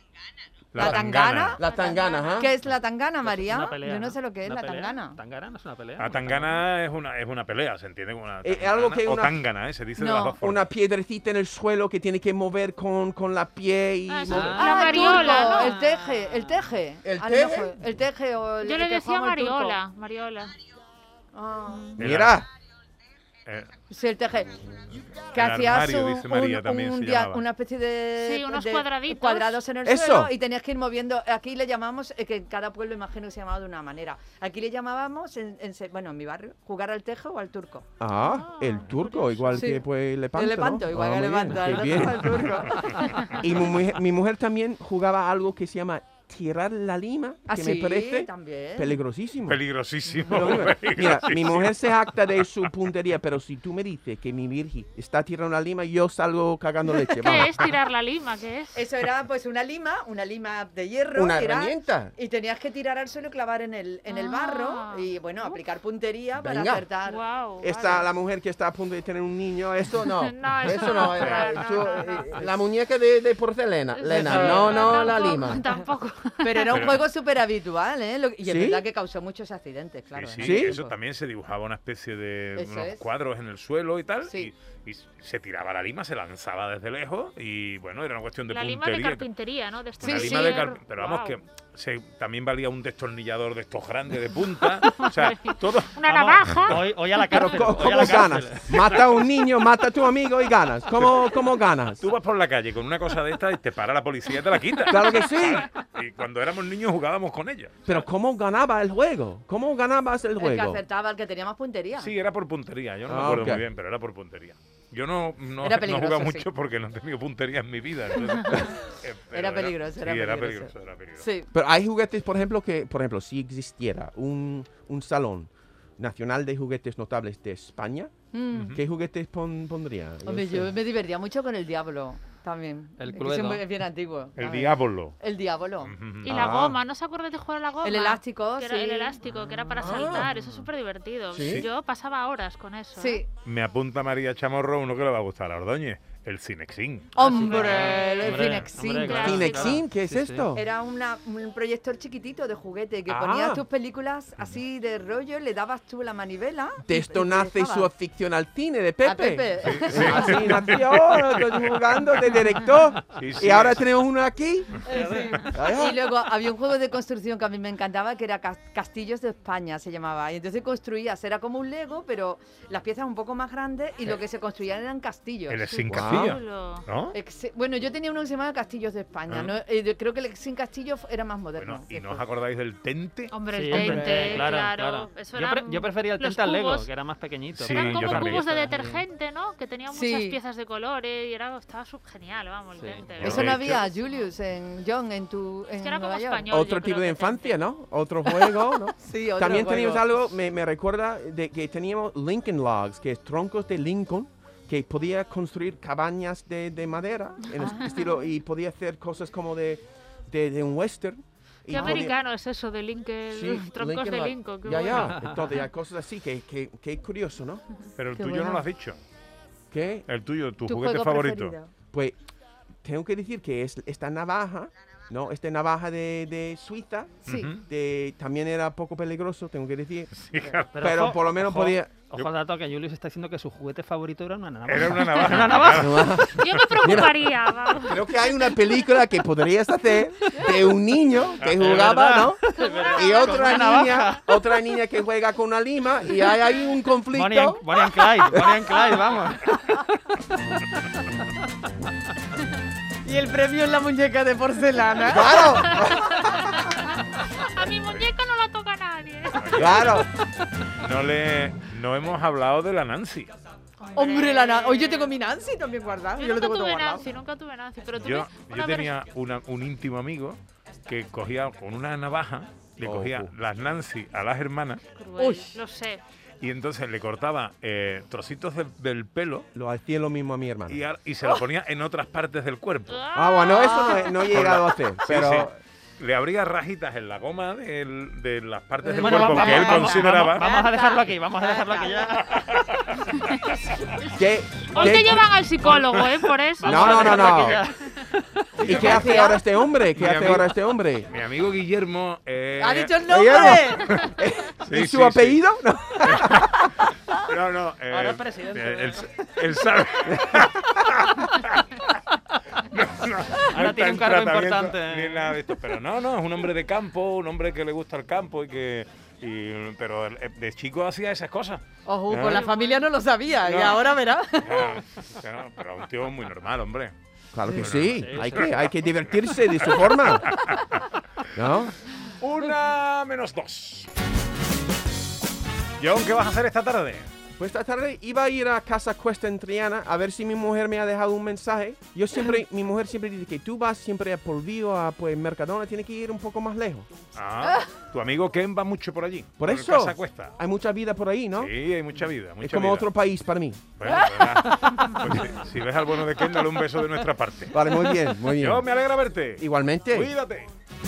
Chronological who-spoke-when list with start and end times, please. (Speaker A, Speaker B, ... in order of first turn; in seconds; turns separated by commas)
Speaker A: 0.7-1.6, Speaker B: 0.8-5.2, Speaker C: 1.6-2.5, Speaker D: 1.6-2.5, Speaker E: 3.2-6.6, Speaker A: 6.0-10.7, Speaker C: 8.4-9.3, Speaker B: 10.0-10.4, Speaker C: 10.4-14.7, Speaker D: 14.1-15.8, Speaker E: 14.3-16.2, Speaker B: 14.5-19.8, Speaker C: 17.0-17.8, Speaker D: 18.6-20.6, Speaker B: 21.3-22.0, Speaker A: 22.0-22.4, Speaker C: 22.0-22.5, Speaker B: 23.9-24.6, Speaker B: 25.3-37.9, Speaker A: 25.3-27.4, Speaker D: 28.2-29.6, Speaker C: 29.8-30.3, Speaker C: 38.0-42.7, Speaker D: 38.2-39.7, Speaker B: 39.5-43.5, Speaker C: 43.3-49.6, Speaker B: 47.5-49.0, Speaker A: 49.5-51.9, Speaker C: 50.3-57.8, Speaker D: 57.2-58.8, Speaker B: 58.7-68.1, Speaker C: 61.1-62.1, Speaker D: 64.1-65.6, Speaker C: 66.4-66.9, Speaker D: 67.0-67.7, Speaker C: 67.6-75.7, Speaker D: 70.0-72.4, Speaker B: 71.0-72.6, Speaker A: 71.2-71.5, Speaker D: 73.9-76.9, Speaker B: 74.1-75.3, Speaker B: 76.4-81.0, Speaker A: 76.7-77.0, Speaker C: 78.5-78.9, Speaker A: 80.1-89.3, Speaker C: 80.4-80.8, Speaker B: 82.6-83.0, Speaker B: 84.3-84.5, Speaker D: 88.5-91.4, Speaker A: 90.0-96.0, Speaker B: 90.0-90.7, Speaker D: 94.8-98.1, Speaker E: 96.0-99.0, Speaker C: 97.4-102.0, Speaker A: 102.0-107.8, Speaker C: 104.9-105.7, Speaker C: 107.9-110.8, Speaker B: 110.4-112.1, Speaker A: 112.0-121.3, Speaker C: 113.1-113.6, Speaker B: 115.6-116.5, Speaker B: 119.3-121.5, Speaker C: 121.5-128.1, Speaker B: 128.3-128.8, Speaker A: 128.6-128.8, Speaker C: 128.7-130.7, Speaker B: 130.2-135.9, Speaker E: 133.0-133.7, Speaker A: 134.4-135.2, Speaker A: 135.8-136.4, Speaker D: 136.2-143.2, Speaker C: 136.2-136.8, Speaker B: 137.8-139.2, Speaker E: 139.4-140.7, Speaker C: 139.8-140.3, Speaker C: 141.3-141.7, Speaker B: 143.0-143.3, Speaker A: 143.4-147.3, Speaker B: 147.2-149.3, Speaker E: 147.2-150.5, Speaker D: 147.3-149.8, Speaker C: 149.2-150.7, Speaker B: 150.5-157.9, Speaker C: 153.1-153.6, Speaker C: 156.9-164.9, Speaker B: 159.0-160.8, Speaker A: 159.6-161.7, Speaker A: 163.1-163.9, Speaker B: 164.8-175.6, Speaker E: 164.9-165.4, Speaker C: 165.5-166.1, Speaker A: 175.5-177.2, Speaker D: 175.7-176.8, Speaker C: 175.9-176.4, Speaker B: 177.1-182.2, Speaker A: 179.3-179.6, Speaker A: 181.6-183.4, Speaker D: 183.3-186.9, Speaker E: 183.5-189.0, Speaker B: 183.7-184.0, Speaker A: 187.5-188.6, Speaker D: 187.7-194.3, Speaker B: 189.9-190.4, Speaker E: 192.8-193.4, Speaker A: 193.2-193.8, Speaker B: 193.2-196.5, Speaker D: 195.8-197.6, Speaker C: 196.5-212.2, Speaker B: 198.3-200.2, Speaker B: 207.6-208.0, Speaker D: 211.7-215.2, Speaker B: 211.7-212.2, Speaker C: 213.3-217.6, Speaker E: 215.0-215.4, Speaker A: 218.0-219.0, Speaker B: 218.1-218.7, Speaker C: 219.7-220.1, Speaker A: 220.1-221.6, Speaker B: 220.7-221.7, Speaker C: 222.8-230.1, Speaker B: 227.2-227.5, Speaker A: 227.3-227.6, Speaker A: 230.2-230.8, Speaker E: 230.7-236.3, Speaker C: 230.8-231.9, Speaker A: 234.7-237.0, Speaker C: 235.7-237.1, Speaker D: 236.0-239.0, Speaker C: 237.8-247.7, Speaker E: 241.5-244.3, Speaker D: 242.6-243.6, Speaker E: 247.1-249.6, Speaker C: 248.3-248.6, Speaker B: 253.0-256.7, Speaker C: 255.0-256.3, Speaker D: 255.6-260.1, Speaker A: 257.6-258.1, Speaker A: 259.4-259.9, Speaker C: 259.6-260.1, Speaker A: 260.8-263.3, Speaker D: 263.8-265.1, Speaker B: 263.9-267.1, Speaker D: 266.2-269.0, Speaker A: 268.0-274.9, Speaker C: 272.8-273.3, Speaker D: 274.9-276.0, Speaker B: 275.2-275.6, Speaker A: 276.4-279.5, Speaker C: 279.6-280.8, Speaker A: 280.7-283.1, Speaker D: 282.9-284.3, Speaker C: 283.1-285.6, Speaker B: 283.5-284.2, Speaker A: 284.3-290.6, Speaker B: 288.8-292.4, Speaker E: 288.9-292.6, Speaker A: 292.3-293.6, Speaker C: 294.1-295.3, Speaker D: 294.7-297.3, Speaker E: 295.7-299.2, Speaker C: 296.6-297.6, Speaker C: 298.6-301.1, Speaker B: 298.6-299.5, Speaker A: 299.9-300.5, Speaker A: 301.1-305.4, Speaker B: 302.6-304.0, Speaker C: 303.1-306.7, Speaker A: 306.0-312.0, Speaker E: 307.9-309.2, Speaker A: 312.7-322.5, Speaker E: 313.4-315.6, Speaker B: 321.9-324.8, Speaker D: 322.3-322.9, Speaker A: 323.4-326.9, Speaker C: 327.3-330.4, Speaker A: 327.5-328.5, Speaker E: 327.8-328.6, Speaker A: 330.2-330.8, Speaker C: 331.3-331.7, Speaker A: 332.2-333.9, Speaker A: 335.8-337.1, Speaker C: 337.4-346.9, Speaker A: 347.1-350.3, Speaker C: 349.4-351.5, Speaker A: 351.4-352.9, Speaker C: 352.4-353.6, Speaker A: 353.8-357.7, Speaker C: 357.5-358.6, Speaker A: 358.4-360.5, Speaker C: 359.4-360.1